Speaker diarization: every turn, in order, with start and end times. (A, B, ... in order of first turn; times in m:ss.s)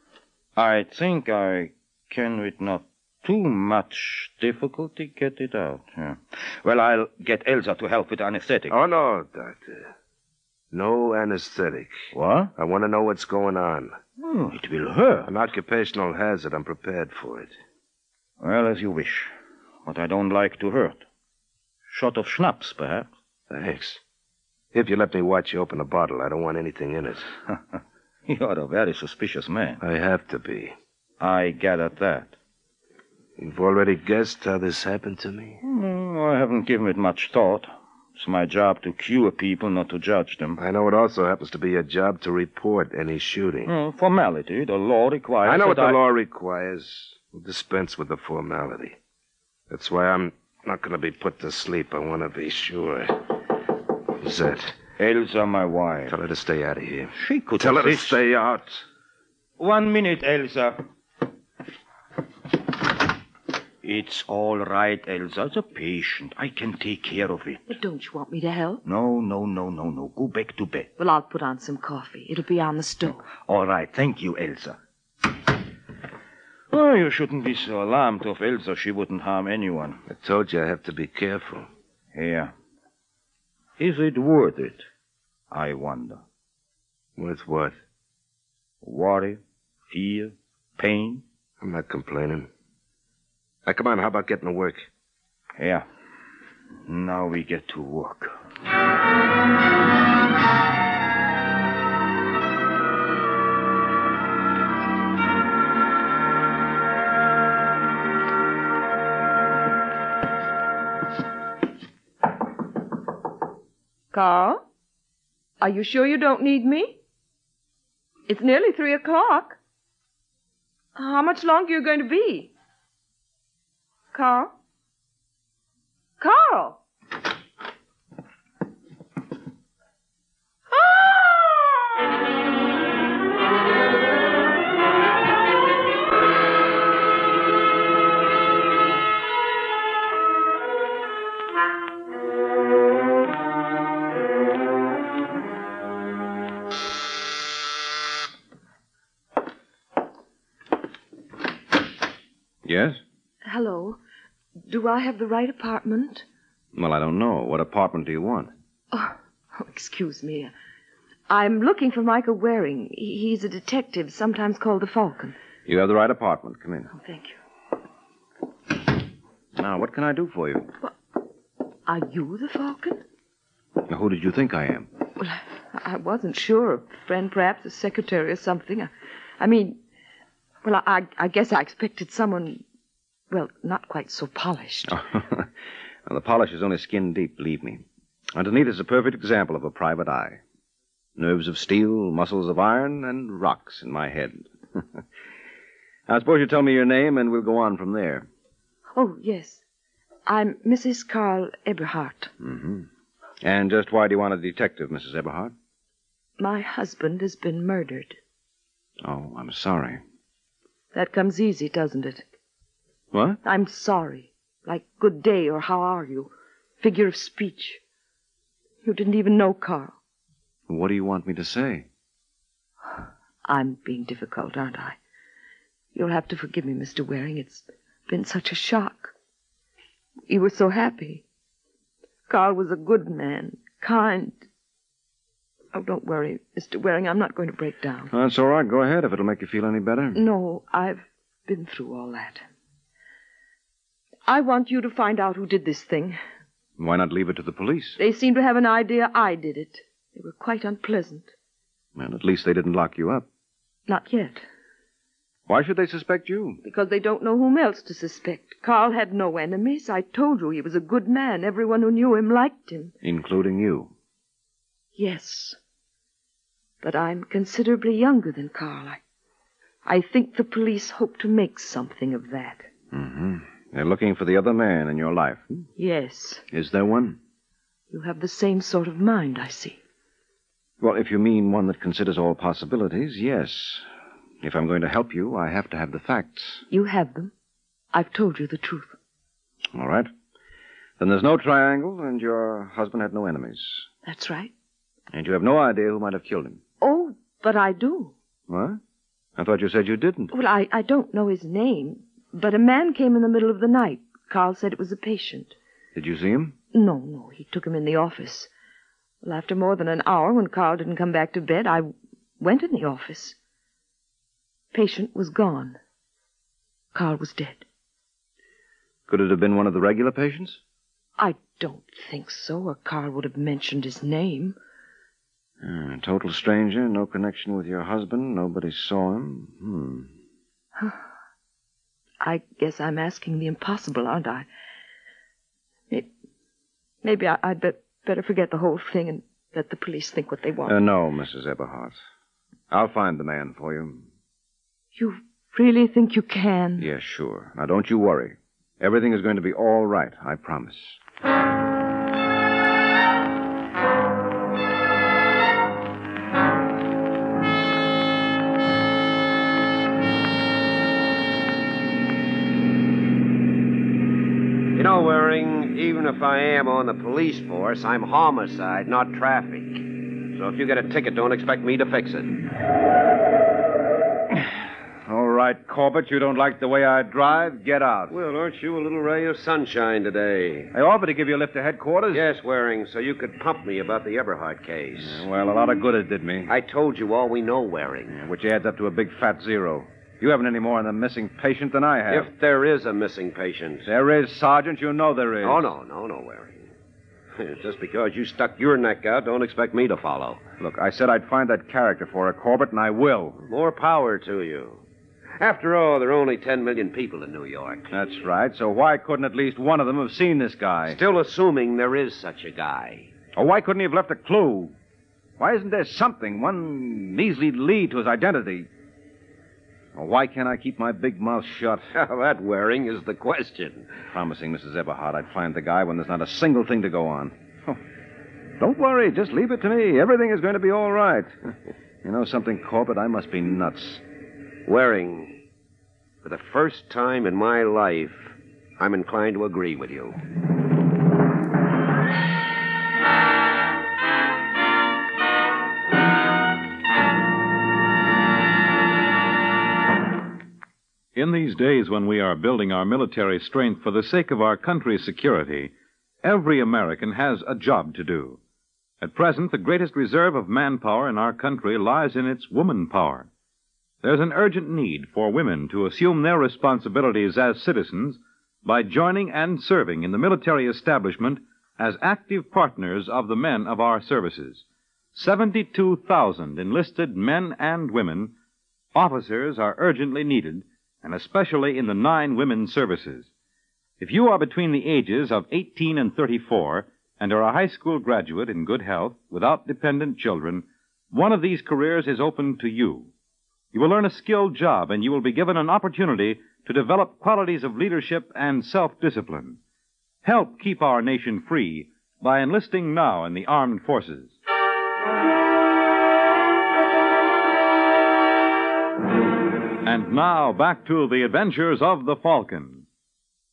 0:00.6-0:08.7 A
0:08.7-0:09.9 B
0:10.7-0:14.0 B
0:12.1-0:12.5 A
0:14.2-0:15.3 A
0:15.3-0:17.5 B
0:18.4-0:19.3 A
0:19.8-0:21.0 A
0:21.9-0:23.1 A
0:23.5-0:24.0 B
0:24.7-0:27.3 B
0:28.3-0:29.8 A
0:29.8-0:30.8 B
0:31.2-0:32.3 A
0:33.4-0:35.6 B
0:35.6-0:40.6 A
0:40.6-0:43.7 B
0:43.7-0:46.0 A
0:45.4-0:49.0 B
0:49.7-0:53.2 B
0:54.2-0:54.8 B
0:55.0-0:56.2 A
0:56.1-0:58.2 B
0:57.2-0:58.8 A
0:59.6-1:00.8 A
1:03.8-1:07.6 A
1:07.7-1:08.8 C
1:08.8-1:10.9 A
1:11.0-1:13.3 C
1:13.4-1:14.8 A
1:16.7-1:20.0 A
1:20.1-1:21.7 B
1:22.2-1:22.5 A
1:23.8-1:24.8 A
1:25.5-1:26.2 A
1:27.2-1:27.8 B
1:28.8-1:31.2 A
1:31.6-1:32.5 B
1:33.7-1:34.9 B
1:35.6-1:35.8 A
1:36.9-1:38.4 A
1:54.1-1:54.6 C
1:55.6-1:57.0 C
1:58.3-1:59.6 C
2:01.0-2:02.5 C
2:04.1-2:04.5 C
2:06.2-2:06.8 C
2:10.7-2:11.7 C
2:32.6-2:33.0 D
2:33.4-2:34.0 C
2:34.7-2:36.2 C
2:36.8-2:38.5 D
2:38.9-2:40.5 C
2:41.3-2:45.4 C
2:45.7-2:46.9 D
2:46.9-2:47.4 C
2:49.6-2:50.7 D
2:51.9-2:53.0 C
2:53.9-2:54.9 D
2:55.2-2:59.8 C
3:00.6-3:02.6 C
3:03.3-3:05.0 C
3:04.9-3:05.5 D
3:06.1-3:07.8 D
3:08.4-3:10.4 D
3:11.2-3:15.0 D
3:16.1-3:18.3 D
3:19.0-3:19.6 C
3:20.3-3:22.3 C
3:22.4-3:22.9 D
3:23.4-3:25.5 D
3:26.4-3:28.2 C
3:29.0-3:30.0 D
3:30.9-3:32.3 C
3:33.1-3:33.4 D
3:33.4-3:37.8 C
3:38.8-3:40.0 C
3:40.7-3:41.9 D
3:43.4-3:45.0 C
3:45.9-3:49.1 C
3:50.3-3:51.2 C
3:52.3-3:54.4 C
3:55.7-3:58.1 C
3:58.1-4:00.2 D
4:00.2-4:02.4 C
4:04.3-4:06.2 C
4:06.8-4:08.0 D
4:08.0-4:11.3 C
4:12.0-4:13.2 D
4:13.9-4:14.4 C
4:15.5-4:16.6 D
4:16.6-4:22.9 C
4:23.0-4:23.9 D
4:25.0-4:25.6 C
4:26.8-4:29.0 C
4:29.8-4:32.7 C
4:32.9-4:35.6 D
4:35.8-4:36.4 C
4:36.5-4:37.2 D
4:37.9-4:39.8 C
4:40.8-4:43.8 D
4:44.4-4:46.6 D
4:46.7-4:47.3 C
4:47.9-4:49.0 C
4:49.8-4:50.1 D
4:51.0-4:53.9 D
4:54.0-4:54.5 C
4:55.1-4:56.6 D
4:56.8-4:58.1 C
4:58.5-4:58.8 D
4:59.4-5:00.3 D
5:00.3-5:05.5 C
5:06.0-5:06.6 D
5:06.7-5:08.5 C
5:09.2-5:13.4 C
5:14.7-5:15.8 C
5:16.9-5:17.6 C
5:19.1-5:20.6 D
5:21.2-5:24.6 C
5:25.6-5:30.1 D
5:32.2-5:34.5 C
5:37.0-5:40.8 C
5:40.6-5:42.0 D
5:42.7-5:44.0 D
5:45.0-5:46.9 C
5:46.8-5:51.0 D
6:04.7-6:12.4 E
6:15.1-6:18.1 D
6:18.1-6:20.7 E
6:20.7-6:22.2 D
6:22.1-6:25.2 E
6:25.0-6:26.5 D
6:26.5-6:28.2 E
6:28.1-6:32.3 D
6:32.1-6:33.9 E
6:33.8-6:35.7 D
6:35.4-6:36.7 E
6:37.4-6:40.4 E
6:40.6-6:43.4 D
6:43.4-6:44.8 E
6:45.4-6:47.9 E
6:47.9-6:51.0 D
6:50.9-6:53.1 E
6:53.4-6:54.7 D
6:55.4-6:58.7 D
7:00.0-7:01.9 D
7:01.9-7:03.9 E
7:04.1-7:07.8 D
7:08.6-7:11.3 D
7:12.0-7:14.0 D
7:14.7-7:15.4 E
7:16.2-7:20.2 E
7:31.1-7:35.7 F
7:36.2-7:38.4 F
7:39.0-7:43.3 F
7:44.0-7:58.3 F
7:58.9-8:03.3 F
8:04.0-8:13.1 F
8:13.7-8:19.6 F
8:20.2-8:24.3 F
8:29.8-8:32.9 F